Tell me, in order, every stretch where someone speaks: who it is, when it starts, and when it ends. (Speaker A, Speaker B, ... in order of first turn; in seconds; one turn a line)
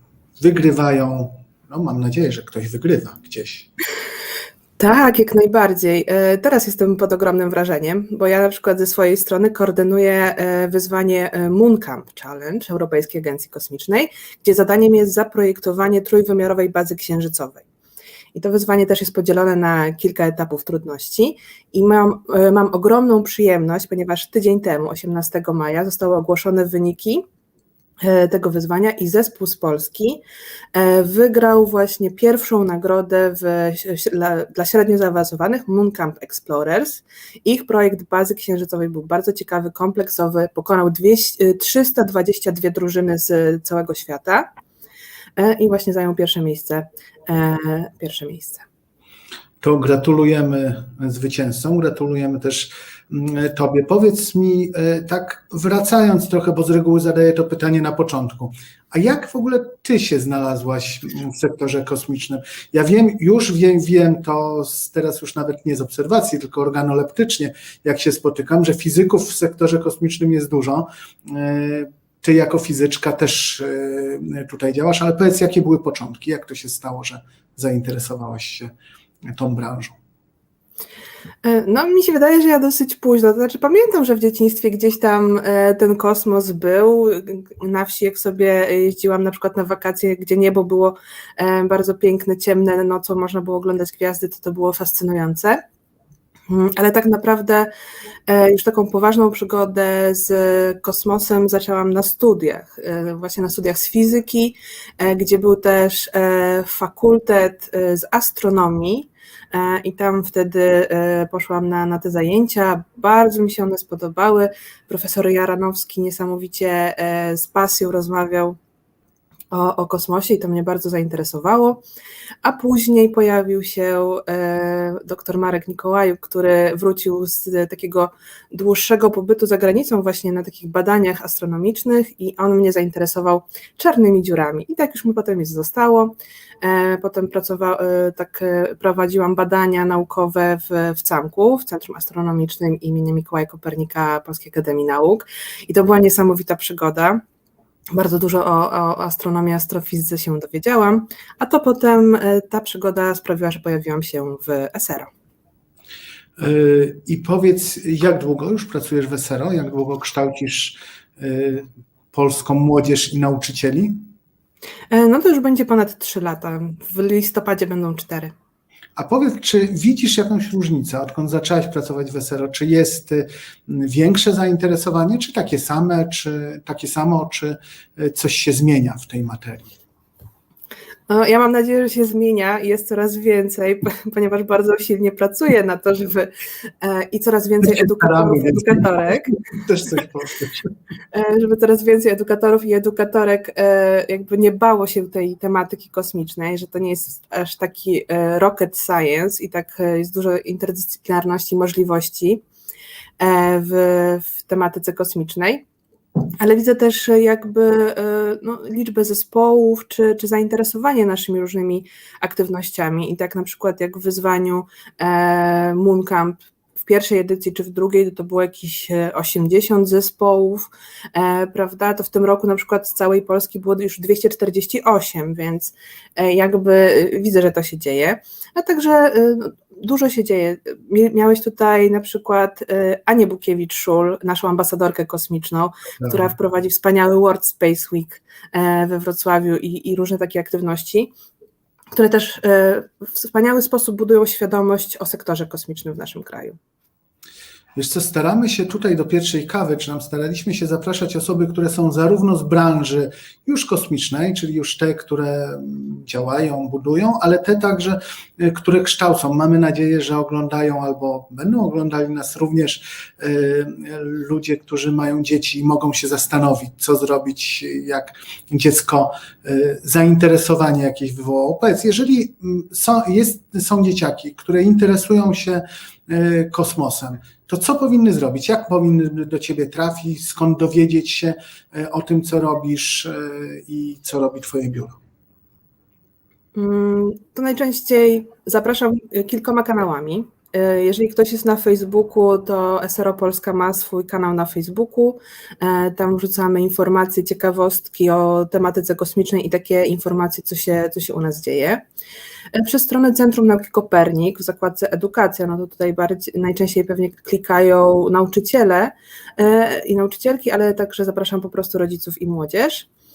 Speaker A: 0.4-3.7
Speaker B: 4.8-17.6
Speaker B: 18.3-27.2
Speaker B: 28.0-30.2
Speaker B: 30.7-44.5
Speaker B: 45.4-48.6
Speaker A: 49.6-78.7
Speaker A: 79.2-80.0
Speaker B: 81.4-95.6
Speaker B: 96.5-97.7
Speaker B: 98.3-118.6
Speaker B: 119.5-121.8
Speaker B: 122.4-147.2
Speaker B: 147.9-155.1
Speaker A: 156.4-164.0
Speaker B: 164.9-168.3
Speaker A: 168.9-179.7
Speaker B: 181.1-189.4
Speaker A: 187.6-188.9
Speaker A: 189.5-190.7
Speaker B: 191.1-202.4
Speaker B: 203.2-205.6
Speaker B: 206.4-241.1
Speaker A: 236.0-236.3
Speaker B: 241.9-246.6
Speaker A: 247.8-285.0
Speaker B: 286.5-301.8
Speaker B: 302.5-312.9